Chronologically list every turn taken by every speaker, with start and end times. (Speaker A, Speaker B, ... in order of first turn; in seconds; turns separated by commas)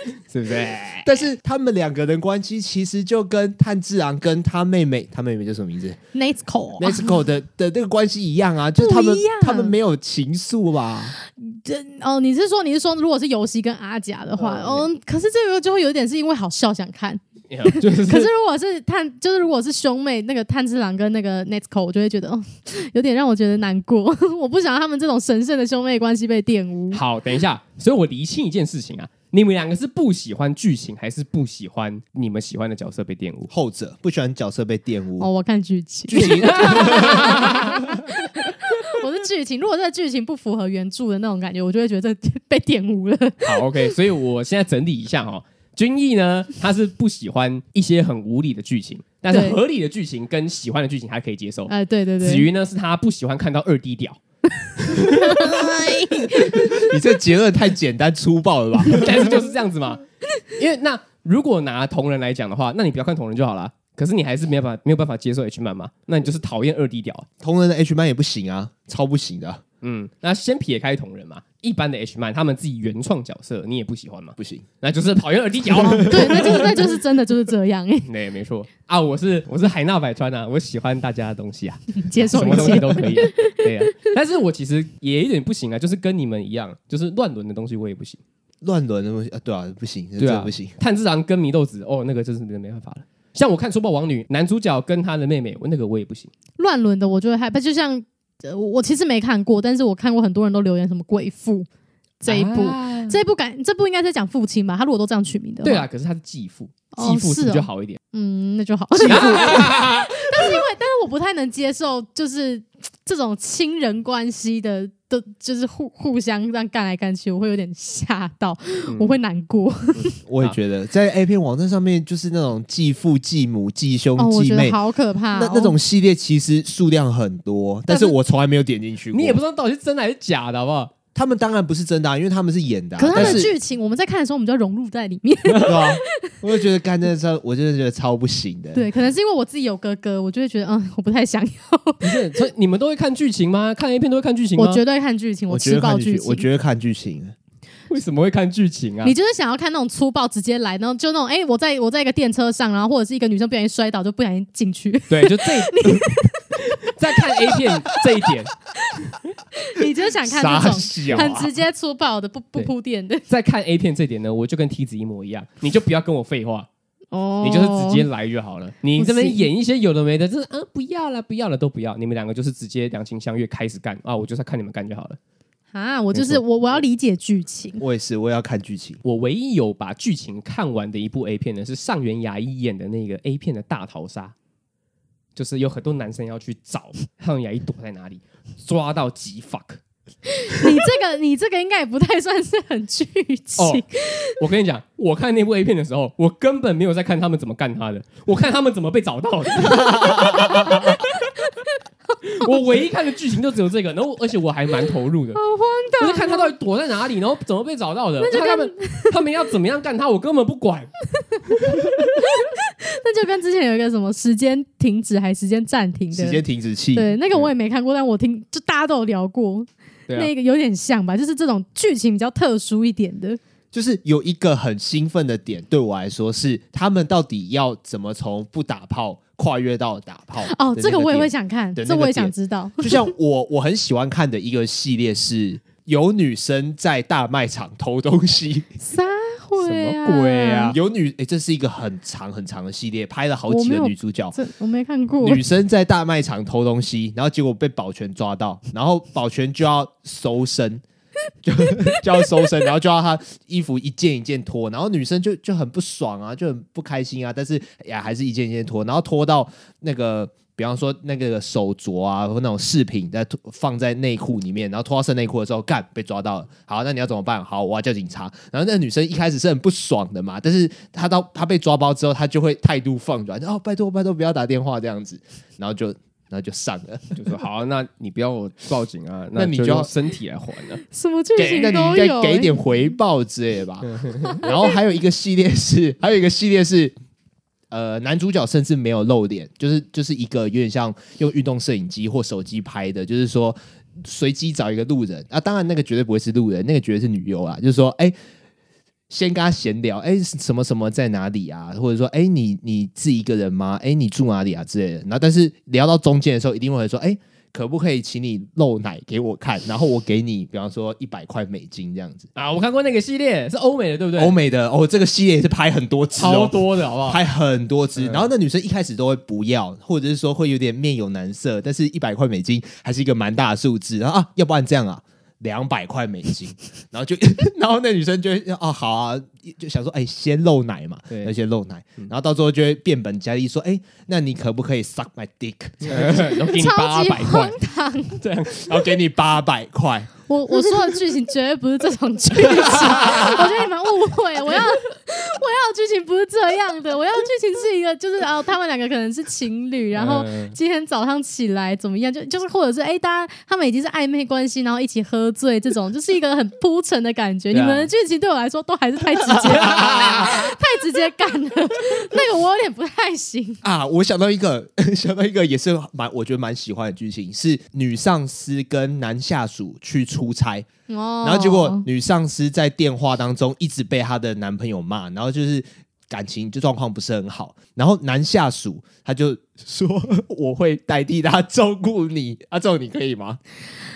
Speaker A: 0.3-1.2, Speaker B: 1.0-6.0, Speaker C: 6.1-7.2, Speaker B: 6.8-11.1, Speaker C: 8.8-9.7, Speaker C: 11.2-27.0, Speaker A: 14.4-14.9, Speaker A: 17.5-18.3, Speaker A: 26.9-33.5, Speaker B: 33.5-35.3, Speaker C: 35.2-44.0, Speaker B: 36.1-37.8, Speaker A: 36.1-37.9, Speaker A: 43.4-54.2, Speaker C: 49.3-49.6, Speaker C: 51.7-52.5, Speaker A: 54.8-55.7, Speaker C: 55.0-56.9, Speaker B: 56.5-59.4, Speaker A: 58.9-60.0, Speaker A: 60.5-67.3, Speaker B: 67.4-69.6, Speaker A: 69.8-76.9, Speaker B: 74.4-74.7, Speaker B: 75.8-76.7, Speaker C: 76.0-78.1, Speaker A: 78.1-88.2, Speaker C: 81.9-83.7, Speaker B: 88.6-90.7, Speaker A: 90.2-96.3, Speaker C: 96.6-101.7, Speaker C: 102.2-105.9, Speaker A: 102.3-103.2, Speaker A: 105.6-108.0, Speaker C: 107.0-120.2, Speaker A: 109.0-110.6, Speaker A: 118.9-119.2, Speaker A: 120.0-120.6, Speaker B: 120.3-124.8, Speaker C: 124.2-125.8, Speaker B: 125.3-129.4, Speaker C: 127.9-128.2, Speaker A: 129.1-130.9, Speaker B: 131.2-133.5, Speaker C: 133.0-136.4, Speaker A: 133.1-133.4, Speaker A: 135.5-135.8, Speaker B: 135.6-138.9, Speaker C: 138.8-142.4, Speaker A: 142.0-144.8, Speaker C: 144.6-146.5, Speaker B: 145.5-147.3, Speaker A: 147.9-149.2, Speaker C: 149.0-158.2, Speaker A: 155.1-158.6, Speaker C: 158.8-163.2, Speaker B: 160.2-161.5, Speaker A: 163.3-166.7, Speaker C: 167.1-168.1, Speaker A: 167.4-175.2, Speaker C: 169.0-169.5, Speaker C: 175.7-177.8, Speaker A: 176.1-176.4, Speaker B: 177.8-179.0, Speaker A: 179.0-184.3, Speaker A: 185.4-189.8, Speaker C: 190.4-194.4, Speaker A: 190.5-190.8, Speaker A: 193.6-201.3, Speaker C: 199.8-201.0, Speaker A: 202.2-205.4, Speaker C: 205.3-206.6, Speaker A: 206.0-212.0, Speaker C: 208.2-209.2, Speaker C: 211.7-216.4, Speaker B: 216.1-217.2, Speaker C: 216.9-223.4, Speaker B: 223.7-238.7, Speaker C: 230.4-233.1, Speaker C: 238.8-240.8, Speaker A: 239.6-240.8, Speaker B: 240.7-244.4, Speaker C: 243.5-245.4, Speaker B: 245.2-250.8, Speaker B: 251.4-277.3, Speaker A: 277.1-280.8, Speaker B: 279.4-279.9, Speaker C: 280.9-282.6, Speaker B: 281.4-286.9, Speaker A: 281.4-281.7, Speaker A: 283.9-284.4, Speaker B: 287.7-298.1, Speaker B: 299.1-312.3, Speaker A: 312.4-314.4, Speaker B: 314.2-336.3, Speaker A: 316.2-317.2, Speaker A: 318.0-318.3, Speaker A: 335.8-337.6, Speaker C: 336.0-338.2, Speaker A: 338.2-338.9, Speaker B: 338.6-340.1, Speaker C: 340.3-363.6, Speaker A: 349.9-350.6, Speaker A: 357.5-357.9, Speaker B: 359.4-360.5, Speaker B: 363.6-370.7, Speaker C: 370.9-371.9, Speaker B: 371.2-383.4